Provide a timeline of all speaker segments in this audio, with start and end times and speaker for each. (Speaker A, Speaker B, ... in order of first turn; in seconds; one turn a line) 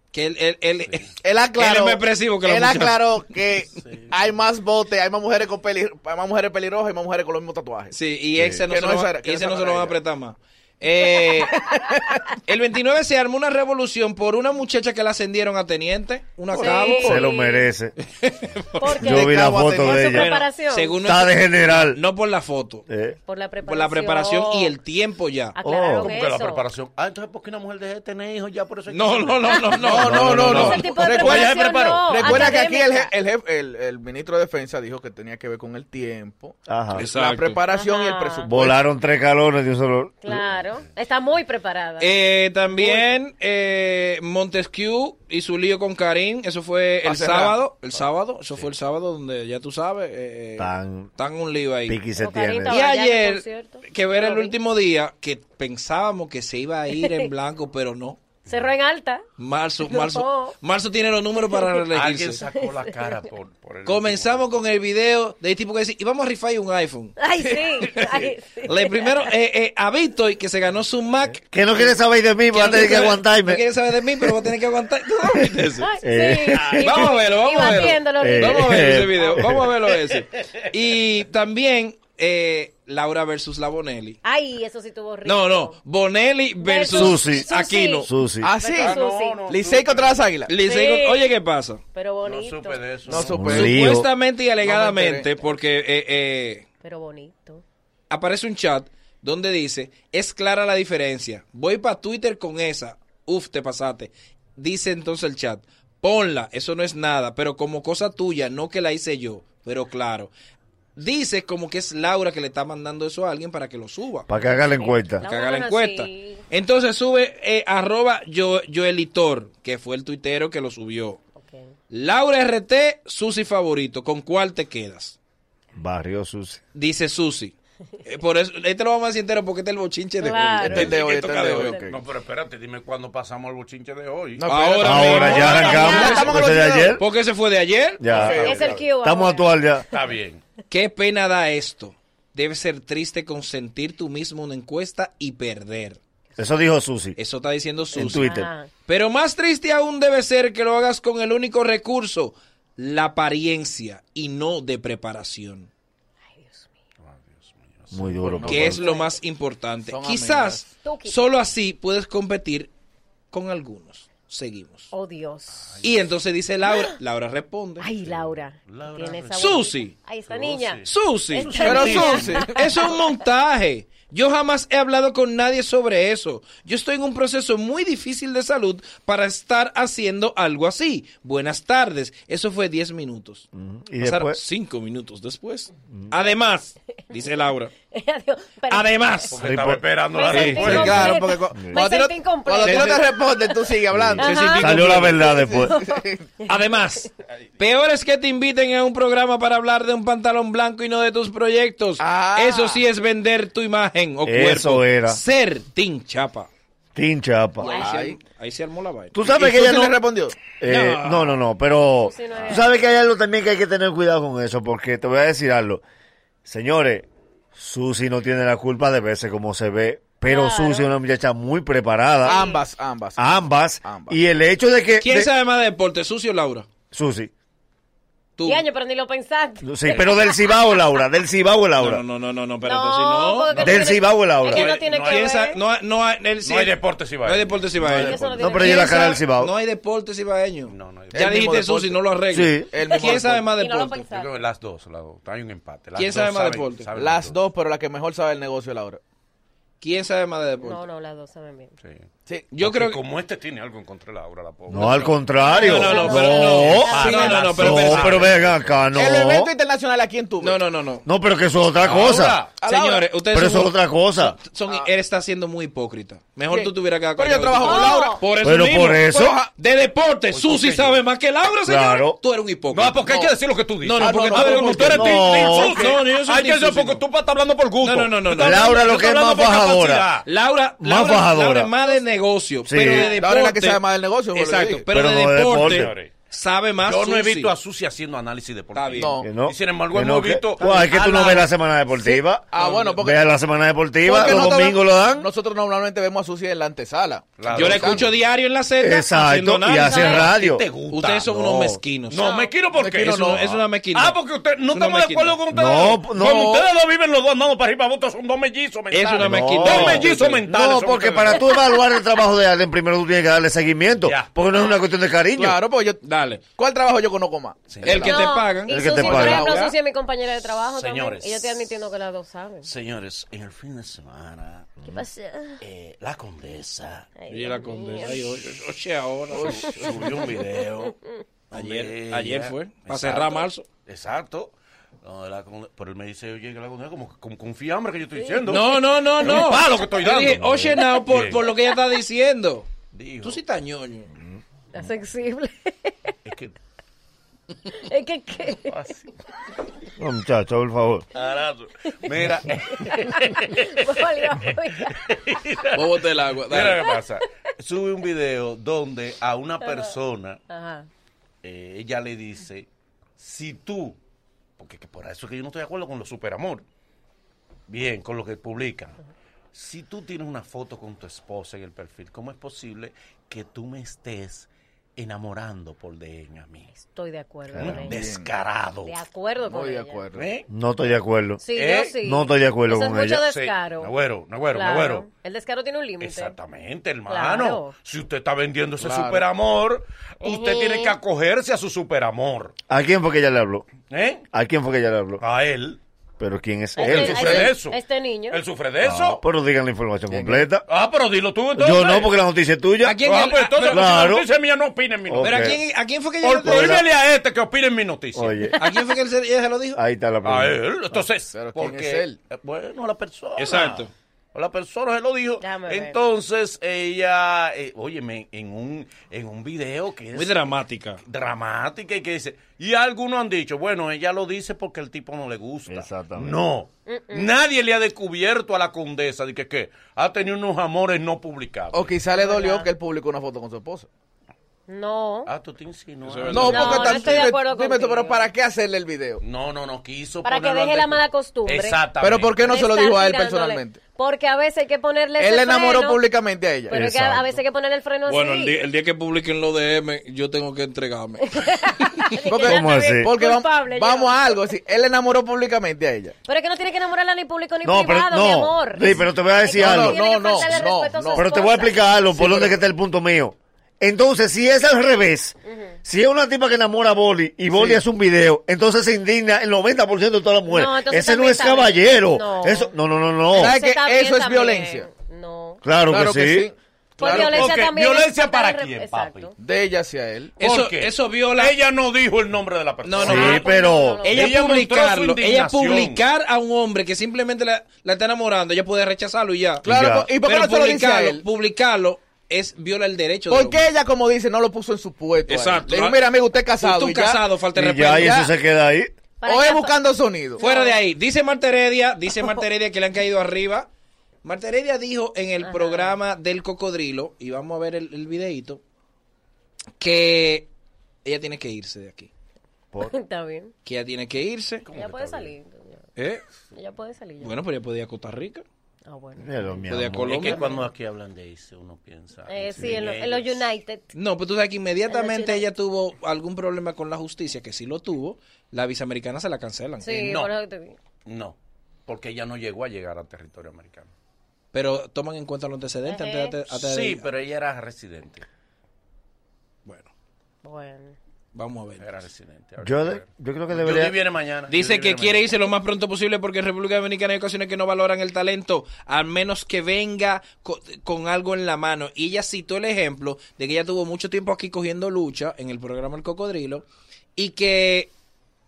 Speaker A: 0.1-3.0
Speaker B: 1.2-8.0
Speaker C: 3.8-4.1
Speaker A: 7.9-11.5
Speaker B: 8.6-10.0
Speaker B: 11.5-12.2
Speaker A: 12.4-17.3
Speaker D: 16.6-17.7
Speaker E: 16.7-17.9
Speaker A: 18.2-19.2
Speaker D: 18.8-21.0
Speaker E: 18.9-20.4
Speaker B: 19.1-20.0
Speaker A: 19.9-22.9
Speaker E: 21.0-22.0
Speaker E: 22.9-23.2
Speaker D: 23.2-24.7
Speaker A: 23.6-25.6
Speaker D: 25.6-26.6
Speaker E: 25.6-26.1
Speaker C: 26.0-32.4
Speaker A: 28.9-30.8
Speaker B: 29.8-38.8
Speaker D: 30.6-33.1
Speaker E: 36.7-37.0
Speaker A: 36.9-37.6
Speaker D: 37.7-38.5
Speaker E: 38.5-40.4
Speaker D: 40.2-42.1
Speaker A: 42.0-52.0
Speaker B: 47.0-47.6
Speaker E: 50.6-51.1
Speaker E: 51.9-52.8
Speaker D: 52.1-54.5
Speaker A: 52.7-58.2
Speaker D: 56.9-57.3
Speaker D: 58.5-59.2
Speaker A: 59.4-62.4
Speaker D: 59.9-60.5
Speaker C: 61.9-64.5
Speaker D: 62.9-63.1
Speaker A: 63.9-67.2
Speaker D: 67.2-69.2
Speaker A: 67.8-71.9
Speaker E: 71.5-73.6
Speaker A: 72.5-75.9
Speaker D: 75.8-79.3
Speaker E: 76.0-77.1
Speaker A: 76.7-84.2
Speaker E: 78.2-79.7
Speaker D: 84.2-85.8
Speaker A: 85.2-88.1
Speaker D: 86.6-89.4
Speaker E: 86.9-88.5
Speaker B: 88.4-90.5
Speaker C: 88.7-90.3
Speaker A: 90.5-91.8
Speaker D: 90.6-91.3
Speaker D: 91.9-92.9
Speaker C: 92.2-93.6
Speaker B: 93.1-93.8
Speaker E: 93.3-94.1
Speaker A: 93.4-96.7
Speaker B: 94.6-95.3
Speaker D: 96.8-97.6
Speaker A: 98.1-110.3
Speaker A: 111.0-114.3
Speaker E: 114.3-115.2
Speaker D: 114.5-116.4
Speaker A: 115.2-121.2
Speaker D: 121.4-121.7
Speaker A: 121.9-125.2
Speaker E: 125.7-126.6
Speaker A: 126.7-131.8
Speaker D: 130.2-131.9
Speaker B: 130.6-132.0
Speaker C: 131.9-136.3
Speaker B: 134.4-137.0
Speaker A: 134.5-136.3
Speaker E: 134.8-137.0
Speaker A: 137.0-138.2
Speaker E: 138.0-139.8
Speaker C: 138.1-138.8
Speaker B: 138.1-138.7
Speaker D: 138.4-139.6
Speaker C: 139.9-140.4
Speaker A: 140.7-146.0
Speaker E: 146.4-147.2
Speaker A: 147.2-148.3
Speaker E: 147.9-148.5
Speaker D: 148.1-148.7
Speaker A: 148.8-155.7
Speaker D: 156.3-156.7
Speaker C: 157.1-158.6
Speaker E: 157.9-158.8
Speaker B: 158.2-158.9
Speaker A: 158.4-162.7
Speaker D: 158.8-159.1
Speaker B: 159.9-160.7
Speaker D: 160.8-161.3
Speaker A: 163.3-164.9
Speaker D: 164.9-165.7
Speaker C: 165.6-166.1
Speaker A: 165.8-167.9
Speaker D: 167.8-172.8
Speaker C: 168.0-169.6
Speaker A: 169.3-169.9
Speaker C: 170.2-172.4
Speaker A: 170.8-183.5
Speaker B: 171.6-172.6
Speaker E: 183.5-184.4
Speaker A: 184.0-187.7
Speaker D: 187.9-189.3
Speaker A: 188.7-189.3
Speaker C: 189.3-191.1
Speaker E: 189.4-189.8
Speaker D: 190.1-193.5
Speaker A: 190.3-191.2
Speaker B: 190.7-194.3
Speaker A: 192.6-193.0
Speaker E: 193.9-195.8
Speaker A: 194.2-195.3
Speaker D: 194.2-197.1
Speaker B: 195.4-196.3
Speaker A: 196.4-206.5
Speaker B: 202.0-202.8
Speaker E: 204.2-205.2
Speaker E: 206.9-207.7
Speaker A: 207.6-209.2
Speaker B: 207.6-208.2
Speaker E: 209.1-210.0
Speaker B: 209.2-210.4
Speaker E: 210.5-215.8
Speaker A: 210.6-211.4
Speaker D: 212.0-212.7
Speaker E: 216.4-222.4
Speaker D: 220.2-220.9
Speaker D: 222.2-222.6
Speaker B: 222.2-224.2
Speaker E: 223.2-225.3
Speaker A: 225.0-226.7
Speaker E: 226.9-227.3
Speaker A: 228.4-228.6
Speaker D: 228.4-230.5
Speaker E: 229.6-232.0
Speaker A: 231.8-233.6
Speaker D: 232.6-235.6
Speaker C: 233.5-233.9
Speaker E: 233.6-234.8
Speaker C: 234.4-235.3
Speaker A: 234.8-244.0
Speaker C: 236.4-238.4
Speaker D: 237.9-239.2
Speaker E: 238.4-239.5
Speaker C: 240.7-241.4
Speaker B: 241.1-242.0
Speaker E: 242.3-242.7
Speaker B: 242.7-243.5
Speaker D: 243.5-244.4
Speaker C: 244.1-247.4
Speaker A: 246.0-246.9
Speaker B: 246.9-249.0
Speaker A: 249.8-250.8
Speaker D: 250.6-251.7
Speaker A: 252.5-253.0
Speaker C: 252.6-255.5
Speaker E: 254.7-259.5
Speaker D: 255.4-257.4
Speaker A: 255.5-258.4
Speaker C: 256.3-258.7
Speaker B: 257.0-257.3
Speaker B: 258.9-260.6
Speaker A: 260.4-261.0
Speaker E: 261.0-262.4
Speaker C: 261.8-262.5
Speaker B: 262.6-263.1
Speaker A: 262.6-273.1
Speaker E: 263.3-264.4
Speaker B: 266.5-268.2
Speaker D: 267.6-268.2
Speaker E: 268.4-269.4
Speaker B: 269.1-269.5
Speaker C: 270.3-271.0
Speaker E: 271.6-272.2
Speaker C: 272.7-280.2
Speaker B: 273.1-273.3
Speaker A: 273.8-277.0
Speaker B: 273.9-275.2
Speaker E: 274.9-275.8
Speaker A: 277.8-278.8
Speaker E: 278.3-280.1
Speaker A: 280.2-287.5
Speaker E: 280.8-281.7
Speaker E: 282.6-283.1
Speaker B: 283.0-284.8
Speaker E: 284.9-285.9
Speaker C: 285.6-286.1
Speaker C: 286.8-290.9
Speaker A: 288.7-289.1
Speaker B: 288.9-289.3
Speaker E: 289.2-295.3
Speaker A: 290.6-291.5
Speaker B: 292.5-293.3
Speaker A: 292.5-292.9
Speaker B: 294.1-298.1
Speaker C: 297.4-298.1
Speaker A: 297.5-300.3
Speaker E: 298.8-300.6
Speaker D: 299.8-300.3
Speaker C: 300.1-301.2
Speaker A: 300.9-302.3
Speaker E: 301.3-301.8
Speaker C: 302.1-311.4
Speaker D: 302.2-302.5
Speaker B: 302.8-303.5
Speaker A: 303.0-304.2
Speaker A: 304.7-305.4
Speaker E: 305.5-306.5
Speaker B: 306.2-306.6
Speaker A: 308.9-310.4
Speaker E: 309.2-315.6
Speaker C: 314.0-314.3
Speaker B: 315.4-316.0
Speaker A: 316.0-316.4
Speaker B: 316.5-318.1
Speaker C: 317.7-318.1
Speaker A: 317.8-319.7
Speaker D: 318.0-322.7
Speaker E: 318.7-319.5
Speaker C: 320.7-321.7
Speaker C: 322.6-324.8
Speaker D: 324.8-325.6
Speaker C: 325.6-327.1
Speaker D: 327.2-328.2
Speaker A: 327.3-329.6
Speaker B: 329.3-329.9
Speaker D: 329.7-330.9
Speaker C: 329.7-330.9
Speaker C: 331.5-341.5
Speaker A: 331.5-333.6
Speaker D: 338.2-338.5
Speaker A: 338.5-342.7
Speaker C: 342.9-343.4
Speaker A: 343.2-344.1
Speaker D: 344.7-346.1
Speaker C: 346.2-346.5
Speaker D: 347.7-348.9
Speaker C: 348.6-349.1
Speaker E: 350.0-351.1
Speaker C: 351.1-354.5
Speaker D: 352.7-355.1
Speaker C: 355.1-355.9
Speaker B: 355.7-356.7
Speaker C: 356.5-360.4
Speaker D: 359.6-359.9
Speaker D: 360.5-360.9
Speaker C: 361.4-362.7
Speaker C: 363.2-364.0
Speaker C: 364.6-366.6
Speaker C: 367.7-369.0
Speaker C: 369.5-376.7
Speaker D: 376.7-377.9
Speaker E: 377.5-377.9
Speaker C: 377.6-379.0
Speaker B: 377.8-378.3
Speaker D: 378.8-380.0
Speaker B: 379.4-380.3
Speaker C: 380.1-380.4
Speaker E: 380.5-381.4
Speaker D: 381.4-383.9
Speaker C: 381.5-381.9
Speaker E: 382.0-383.2
Speaker C: 383.1-385.1
Speaker D: 384.5-386.4
Speaker C: 386.0-392.5
Speaker D: 387.1-387.7
Speaker B: 388.8-389.2
Speaker D: 390.2-390.9
Speaker E: 392.7-393.7
Speaker C: 393.9-394.2
Speaker E: 394.3-395.2
Speaker C: 395.2-395.8
Speaker E: 396.2-397.5
Speaker C: 396.8-397.8
Speaker D: 396.8-398.4
Speaker C: 398.3-399.2
Speaker E: 398.8-400.6
Speaker B: 400.1-400.4
Speaker C: 400.7-402.1
Speaker E: 401.6-403.0
Speaker A: 402.8-403.9
Speaker C: 403.0-405.6
Speaker E: 403.6-404.2
Speaker E: 405.1-405.6
Speaker A: 405.2-406.8
Speaker C: 406.2-408.5
Speaker E: 406.4-406.8
Speaker E: 408.1-408.5
Speaker A: 408.6-409.8
Speaker E: 409.7-410.6
Speaker C: 410.2-420.4
Speaker B: 411.3-412.1
Speaker A: 413.4-413.9
Speaker D: 415.4-416.0
Speaker A: 420.1-421.0
Speaker C: 421.0-431.9
Speaker E: 425.7-426.4
Speaker D: 426.9-427.3
Speaker B: 431.7-433.9
Speaker D: 432.1-432.7
Speaker D: 434.7-435.3
Speaker C: 435.2-437.3
Speaker A: 436.0-437.2
Speaker B: 436.3-439.2
Speaker D: 436.5-438.3
Speaker C: 439.2-442.4
Speaker D: 440.2-441.9
Speaker B: 442.0-443.8
Speaker D: 442.4-446.0
Speaker B: 445.2-446.9
Speaker D: 446.7-448.6
Speaker E: 446.7-447.3
Speaker A: 448.1-451.3
Speaker D: 451.2-454.5
Speaker B: 452.2-456.1
Speaker E: 452.4-453.1
Speaker D: 456.2-462.0
Speaker E: 457.6-460.0
Speaker B: 459.5-461.4
Speaker E: 461.1-473.6
Speaker B: 462.1-462.5
Speaker D: 465.4-465.8
Speaker B: 467.5-467.8
Speaker D: 470.5-472.7
Speaker B: 473.3-474.9
Speaker D: 473.3-475.6
Speaker E: 475.6-476.5
Speaker B: 475.9-477.6
Speaker D: 477.0-479.3
Speaker C: 477.0-479.3
Speaker B: 479.4-480.3
Speaker A: 480.4-481.5
Speaker C: 480.4-483.4
Speaker A: 482.8-483.4
Speaker E: 483.0-484.0
Speaker D: 483.2-484.3
Speaker A: 484.0-489.7
Speaker C: 484.1-486.0
Speaker E: 489.6-490.1
Speaker B: 489.6-491.2
Speaker A: 490.2-493.6
Speaker B: 493.3-497.2
Speaker A: 495.3-496.0
Speaker A: 496.6-498.2
Speaker E: 497.5-498.9
Speaker B: 497.9-498.3
Speaker D: 499.2-499.8
Speaker B: 499.2-500.4
Speaker D: 500.4-500.8
Speaker A: 500.4-503.7
Speaker A: 504.2-508.6
Speaker D: 505.4-506.0
Speaker A: 509.8-510.5
Speaker A: 511.0-512.1
Speaker D: 512.8-513.5
Speaker A: 513.6-514.7
Speaker C: 514.7-515.3
Speaker D: 514.7-515.9
Speaker A: 516.0-516.2
Speaker D: 516.5-517.4
Speaker A: 517.2-518.4
Speaker D: 518.9-519.6
Speaker E: 519.2-520.3
Speaker A: 519.7-520.4
Speaker C: 520.0-523.4
Speaker D: 520.3-520.7
Speaker D: 522.3-523.9
Speaker A: 523.9-530.1
Speaker D: 524.9-525.5
Speaker D: 529.8-530.8
Speaker C: 529.9-530.3
Speaker C: 531.0-531.4
Speaker C: 531.9-533.9
Speaker A: 534.5-537.0
Speaker D: 535.9-536.3
Speaker C: 536.5-538.2
Speaker D: 540.4-541.0
Speaker A: 541.3-541.8
Speaker C: 541.8-545.3
Speaker E: 542.6-543.9
Speaker A: 544.5-556.6
Speaker A: 557.1-557.9